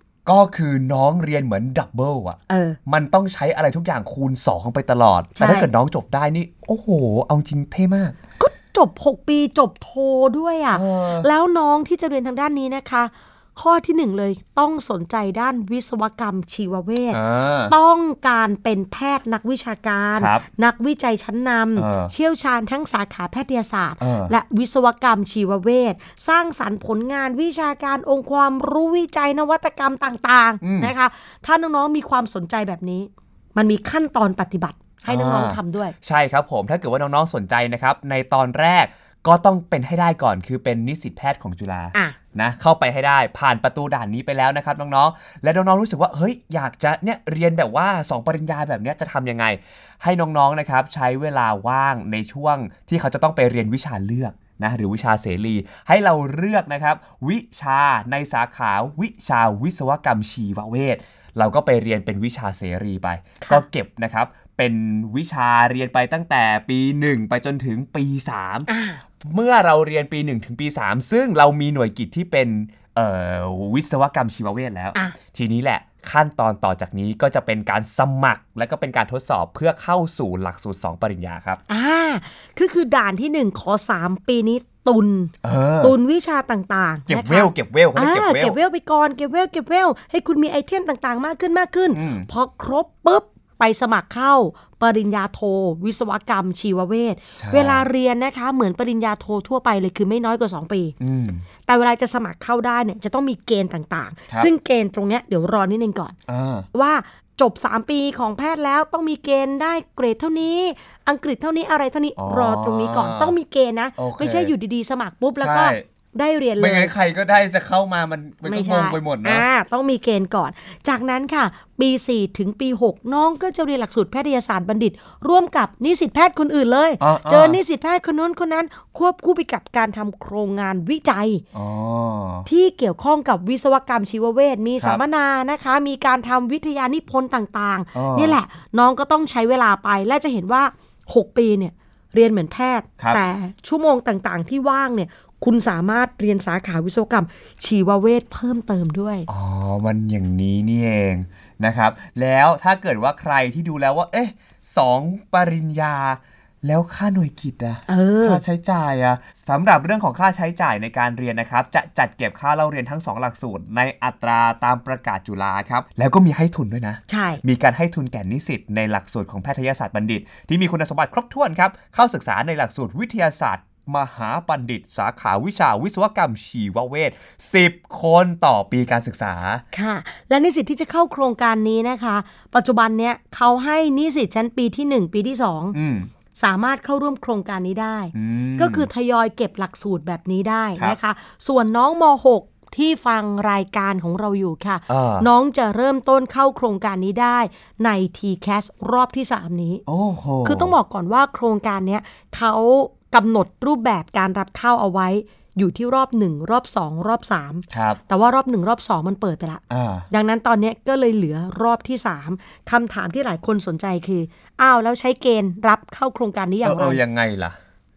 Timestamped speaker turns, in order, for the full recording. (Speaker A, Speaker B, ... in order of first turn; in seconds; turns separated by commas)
Speaker A: 0.2-8.2, Speaker B: 2.5-2.8, Speaker B: 5.3-5.7, Speaker B: 8.4-35.9, Speaker A: 10.7-11.3, Speaker A: 17.1-17.8, Speaker A: 20.1-20.4, Speaker A: 21.8-22.1, Speaker A: 24.0-24.3, Speaker A: 30.6-30.9, Speaker A: 35.1-68.7, Speaker B: 68.7-69.0, Speaker A: 69.2-81.6, Speaker B: 81.7-100.9, Speaker A: 85.4-86.0, Speaker A: 87.1-88.6, Speaker A: 91.9-92.3, Speaker A: 97.4-97.8, Speaker A: 101.0-101.4, Speaker B: 101.7-106.2, Speaker A: 106.3-106.7, Speaker B: 106.7-116.9, Speaker A: 112.2-113.3, Speaker A: 114.0-114.5, Speaker A: 115.4-115.8, Speaker A: 116.6-119.4, Speaker B: 118.4-131.4, Speaker A: 127.0-127.6, Speaker A: 131.5-132.4, Speaker B: 132.4-149.3, Speaker A: 137.9-138.4, Speaker A: 149.3-179.6, Speaker B: 157.9-158.4, Speaker B: 167.1-167.4, Speaker B: 179.7-185.8, Speaker A: 185.7-186.1, Speaker B: 186.3-199.8, Speaker A: 188.1-188.9, Speaker A: 194.9-195.3, Speaker A: 199.9-200.7, Speaker B: 200.4-217.0, Speaker A: 207.7-208.0, Speaker A: 209.7-210.1, Speaker A: 216.6-217.6